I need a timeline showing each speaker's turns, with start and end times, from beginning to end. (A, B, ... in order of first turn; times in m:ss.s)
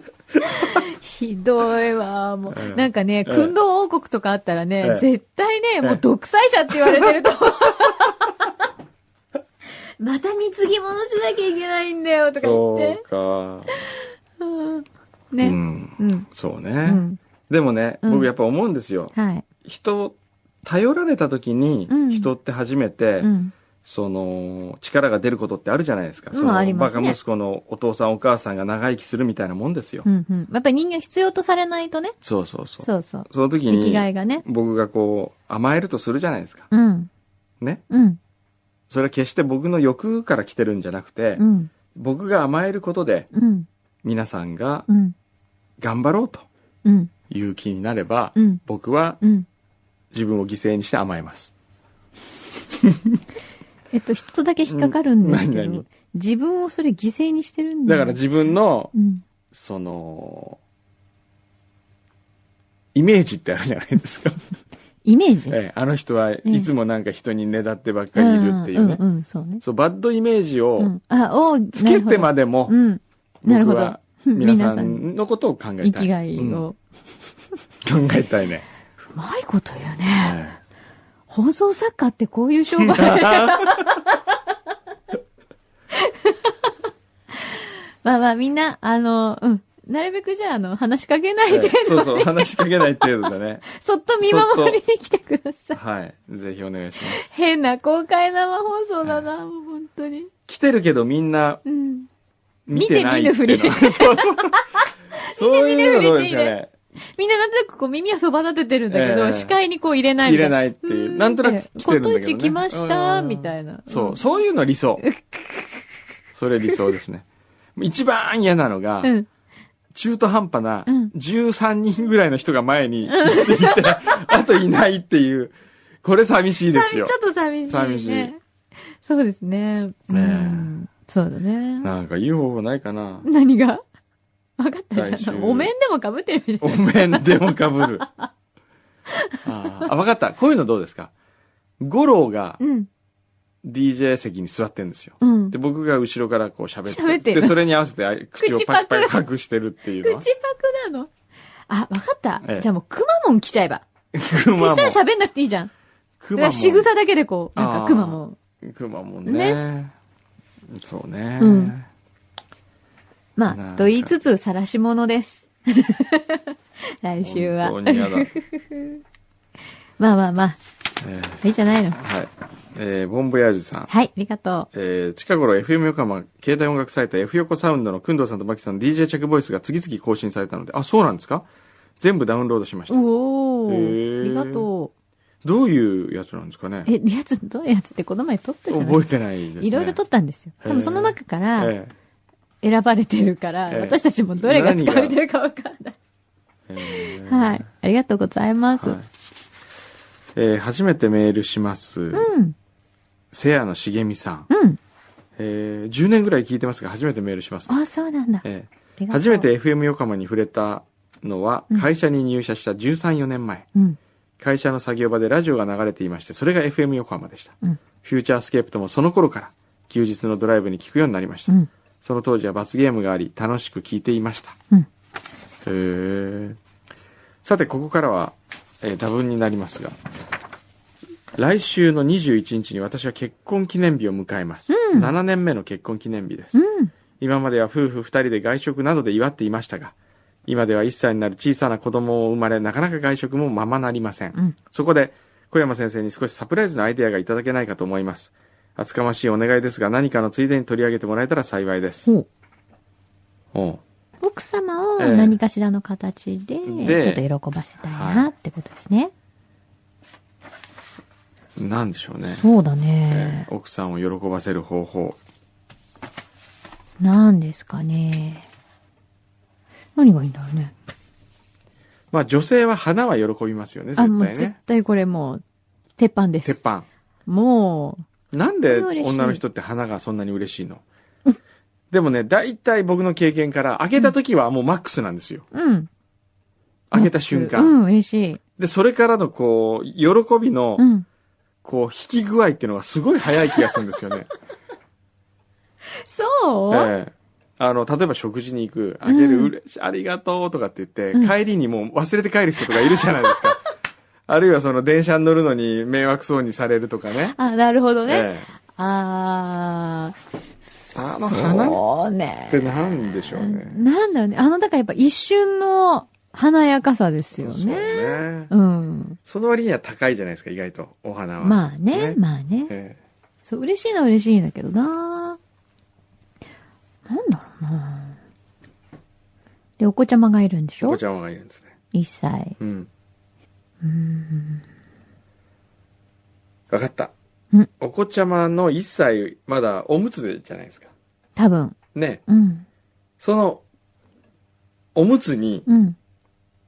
0:00.5-0:08.7 A
0:02.5-0:03.5 B
0:04.8-0:05.1 B
0:10.0-0:13.0 A
0:12.4-0:13.7 B
0:14.4-0:16.3 A
0:15.4-0:19.1 B
0:16.8-0:17.2 A
0:18.0-0:18.3 A
0:19.2-0:19.4 A
0:19.6-0:23.3 B
0:21.9-0:22.3 A
0:23.2-0:23.5 A
0:23.8-0:30.1 B
0:26.3-0:27.2 A
0:30.0-0:32.2 A
0:32.2-0:36.7 B
0:32.8-0:34.4 A
0:36.7-0:37.1 A
0:37.9-0:38.2 A
0:38.9-0:41.4 B
0:41.4-0:41.7 A
0:42.0-0:43.3 B
0:43.3-0:43.7 A
0:44.0-0:44.9 B
0:44.9-0:45.1 A
0:45.8-0:46.5 B
0:46.8-0:47.1 A
0:47.3-0:49.2 B
0:48.4-0:48.6 A
0:49.2-0:49.5 A
0:50.1-0:51.5 B
0:52.8-0:53.2 B
0:53.9-0:59.2 A
0:54.7-0:55.8 B
0:57.9-0:58.9 B
0:59.5-1:00.6 B
1:02.9-1:04.4 B
1:05.0-1:05.6 A
1:05.5-1:09.0 B
1:06.4-1:06.7 A
1:08.2-1:09.6 A
1:09.6-1:10.9 B
1:10.8-1:15.0 A
1:11.4-1:12.8 B
1:13.4-1:16.6 B
1:15.8-1:16.8 A
1:17.8-1:18.7 B
1:19.1-1:20.4 A
1:20.2-1:20.6 B
1:21.3-1:24.2 A
1:22.8-1:24.0 B
1:25.9-1:26.5 A
1:27.4-1:35.8 A
1:31.5-1:33.7 B
1:34.2-1:34.8 B
1:35.7-1:37.3 B
1:37.1-1:40.3 A
1:40.5-1:41.6 B
1:41.7-1:42.1 A
1:42.7-1:44.6 B
1:42.7-1:46.6 A
1:45.2-1:46.7 B
1:47.2-1:54.2 A
1:48.9-1:49.6 B
1:50.2-1:55.0 B
1:55.0-1:55.8 A
1:56.3-1:57.2 B
1:57.8-1:59.1 B
1:59.9-2:07.1 B
2:00.9-2:01.1 A
2:03.1-2:04.4 A
2:06.7-2:08.4 A
2:07.7-2:08.3 B
2:09.0-2:11.9 A
2:10.1-2:10.7 B
2:11.8-2:13.3 B
2:13.2-2:13.8 A
2:14.6-2:18.3 A
2:14.9-2:15.7 B
2:16.6-2:18.1 B
2:19.1-2:19.9 A
2:19.4-2:21.1 B
2:21.8-2:22.6 B
2:22.6-2:22.9 A
2:23.6-2:30.3 B
2:25.2-2:25.6 A
2:26.9-2:27.6 A
2:28.4-2:29.2 A
2:30.0-2:31.1 A
2:31.7-2:33.8 A
2:34.1-2:35.0 B
2:34.6-2:35.7 A
2:36.2-2:36.9 B
2:36.4-2:38.4 A
2:37.6-2:39.9 B
2:39.3-2:39.6 A
2:40.7-2:41.9 B
2:41.4-2:41.7 A
2:43.4-2:49.0 A
2:43.5-2:44.1 B
2:47.2-2:48.3 B
2:50.0-2:50.6 A
2:51.0-2:53.9 B
2:51.4-2:52.0 A
2:53.9-2:54.7 A
2:54.7-3:01.5 B
3:02.0-3:03.0 B
3:02.9-3:04.9 A
3:03.7-3:04.7 B
3:05.4-3:06.9 B
3:06.9-3:09.1 A
3:08.7-3:10.0 B
3:09.6-3:11.7 A
3:10.6-3:11.9 B
3:12.6-3:16.0 A
3:13.7-3:15.2 B
3:16.7-3:17.6 B
3:16.8-3:19.0 A
3:18.8-3:19.1 B
3:20.4-3:22.3 B
3:22.1-3:22.6 A
3:23.3-3:24.5 B
3:24.5-3:24.8 A
3:25.4-3:27.7 B
3:27.7-3:28.5 A
3:28.4-3:33.7 B
3:29.0-3:29.5 A
3:34.4-3:44.6 B
3:45.6-3:46.6 B
3:47.4-3:50.0 B
3:51.4-3:56.6 B
3:54.7-3:55.1 A
3:56.6-3:56.9 A
3:57.2-3:59.9 B
4:00.5-4:12.1 B
4:13.5-4:13.8 B
4:14.2-4:19.1 A
4:15.0-4:15.4 B
4:16.7-4:17.2 B
4:17.9-4:18.3 B
4:21.6-4:22.5 B
4:22.4-4:23.5 A
4:23.1-4:25.2 B
4:27.0-4:28.5 A
4:30.0-4:30.7 A
4:32.1-4:34.6 B
4:34.0-4:35.4 A
4:36.0-4:36.6 A
4:36.4-4:36.9 B
4:37.3-4:38.1 A
4:38.3-4:40.8 B
4:38.6-4:39.4 A
4:41.9-4:45.5 B
4:45.5-4:45.9 A
4:46.9-4:47.8 B
4:46.9-4:48.4 A
4:48.6-4:50.9 B
4:50.8-4:51.0 A
4:51.6-4:54.3 B
4:56.0-4:56.9 A
4:56.7-5:03.6 B
4:59.1-4:59.5 A
5:03.0-5:03.5 A
5:04.3-5:07.4 B
5:07.3-5:10.2 A
5:08.1-5:08.5 B
5:10.9-5:19.2 A
5:10.9-5:11.8 B
5:12.5-5:13.8 B
5:17.4-5:18.5 B
5:19.3-5:23.0 B
5:21.4-5:22.7 A
5:23.4-5:25.4 A
5:27.1-5:28.2 A
5:29.8-5:31.0 A
5:30.8-5:31.7 B
5:31.9-5:32.6 A
5:32.6-5:32.9 B
5:33.8-5:34.6 A
5:36.7-5:37.1 B
5:37.8-5:40.9 B
5:41.4-5:42.6 A
5:41.9-5:42.2 B
5:43.2-5:43.6 B
5:45.0-5:45.7 B
5:45.7-5:46.0 A